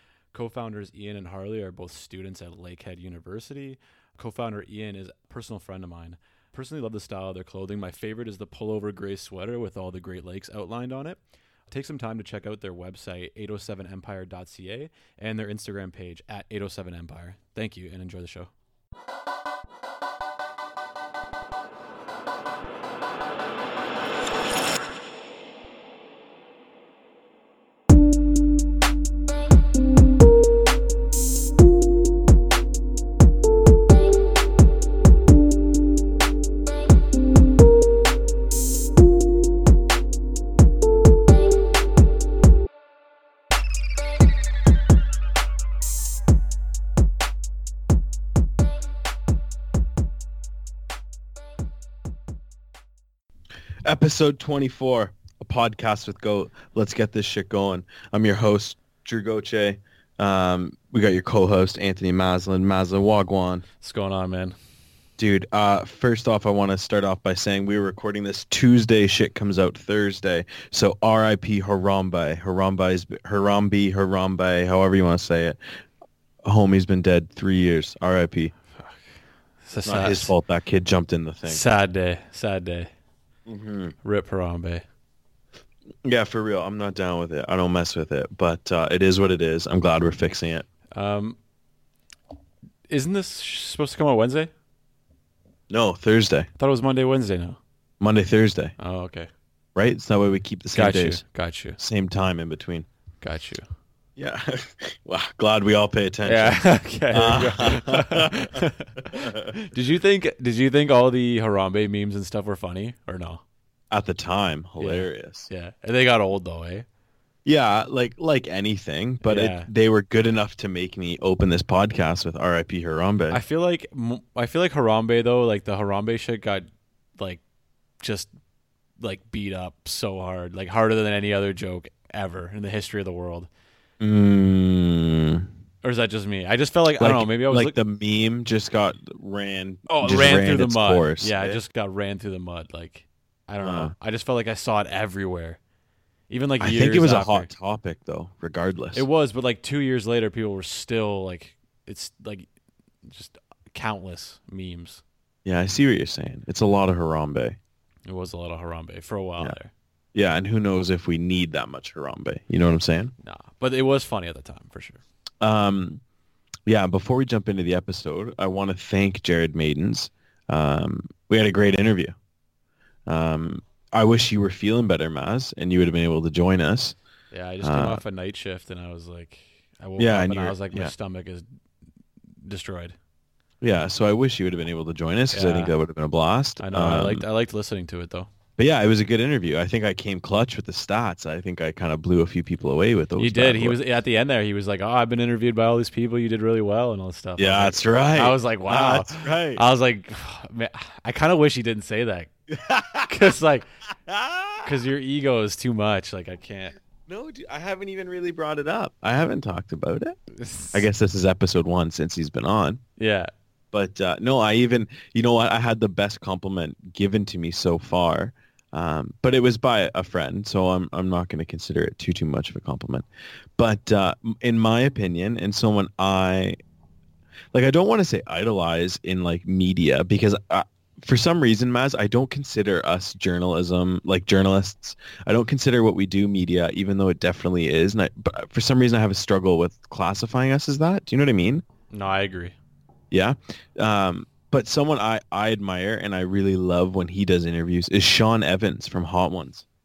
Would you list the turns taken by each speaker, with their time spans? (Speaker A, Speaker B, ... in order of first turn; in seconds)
Speaker A: 0.3-18.5, 63.8-64.5, 79.6-80.3, 81.5-82.9, 84.0-84.8, 90.9-91.4, 92.9-94.5, 96.6-97.6, 98.8-99.3, 100.7-101.8, 103.2-103.6, 106.2-113.4, 114.8-116.8, 119.2-119.7, 123.3-126.7, 128.0-128.3, 129.0-133.5, 135.8-137.8, 139.9-145.6, 146.3-147.5, 148.9-152.5, 153.0-155.0, 158.1-159.7, 163.2-165.0, 177.3-181.4, 182.4-182.9, 185.3-185.7, 186.6-188.3, 193.2-202.3, 203.1-203.7, 204.6-206.8, 210.3-210.9, 213.0-213.3, 241.9-242.6
Speaker B: 53.8-63.6, 65.2-75.6, 76.4-78.5, 79.8-81.6, 83.5-83.9, 86.0-90.7, 95.7-96.5, 98.0-98.7, 99.8-101.2, 101.8-102.8, 104.2-108.5, 109.0-109.5, 113.9-115.5, 117.4-123.4, 134.0-135.5, 137.0-141.6, 143.6-143.9, 146.6-149.0, 155.4-157.6, 160.1-163.1, 165.4-166.0, 166.7-172.1, 173.1-176.9, 177.6-178.0, 180.0-180.9, 183.6-187.2, 188.6-193.8, 197.4-199.6, 202.5-203.2, 204.1-204.7, 207.1-210.2, 210.7-212.8, 213.7-223.0, 223.6-226.6, 227.5-241.6, 243.1-249.6